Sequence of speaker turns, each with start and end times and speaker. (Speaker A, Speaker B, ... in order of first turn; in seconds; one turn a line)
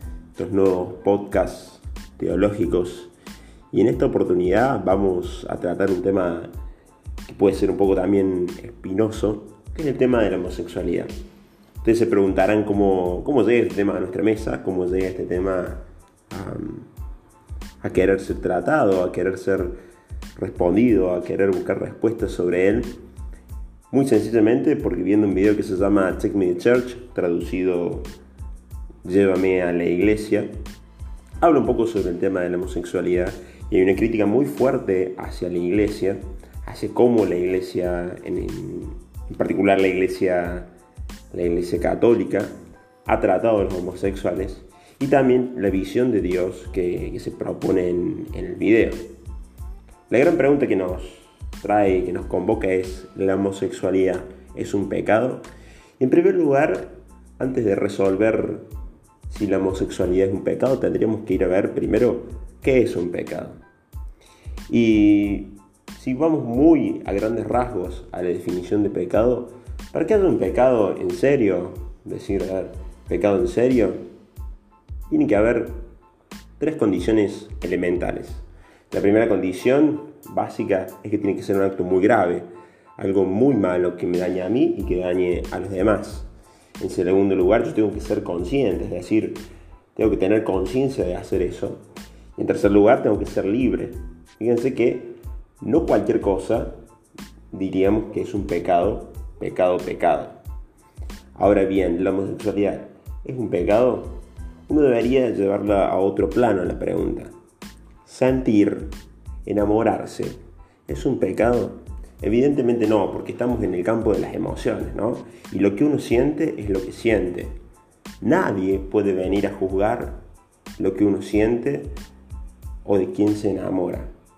Speaker A: 0.3-3.1
Speaker A: 3.7-6.5
Speaker A: 7.2-11.1
Speaker A: 11.8-16.9
Speaker A: 17.8-19.8
Speaker A: 20.4-23.0
Speaker A: 23.9-28.1
Speaker A: 29.0-30.5
Speaker A: 31.4-40.7
Speaker A: 41.3-42.5
Speaker A: 43.0-49.1
Speaker A: 50.1-55.4
Speaker A: 56.0-58.7
Speaker A: 59.3-63.6
Speaker A: 64.7-74.0
Speaker A: 75.1-75.8
Speaker A: 76.6-86.3
Speaker A: 86.8-89.4
Speaker A: 89.9-91.8
Speaker A: 92.3-96.8
Speaker A: 97.5-100.3
Speaker A: 101.3-107.3
Speaker A: 108.0-108.9
Speaker A: 109.4-117.6
Speaker A: 118.2-120.2
Speaker A: 120.8-121.9
Speaker A: 122.8-124.1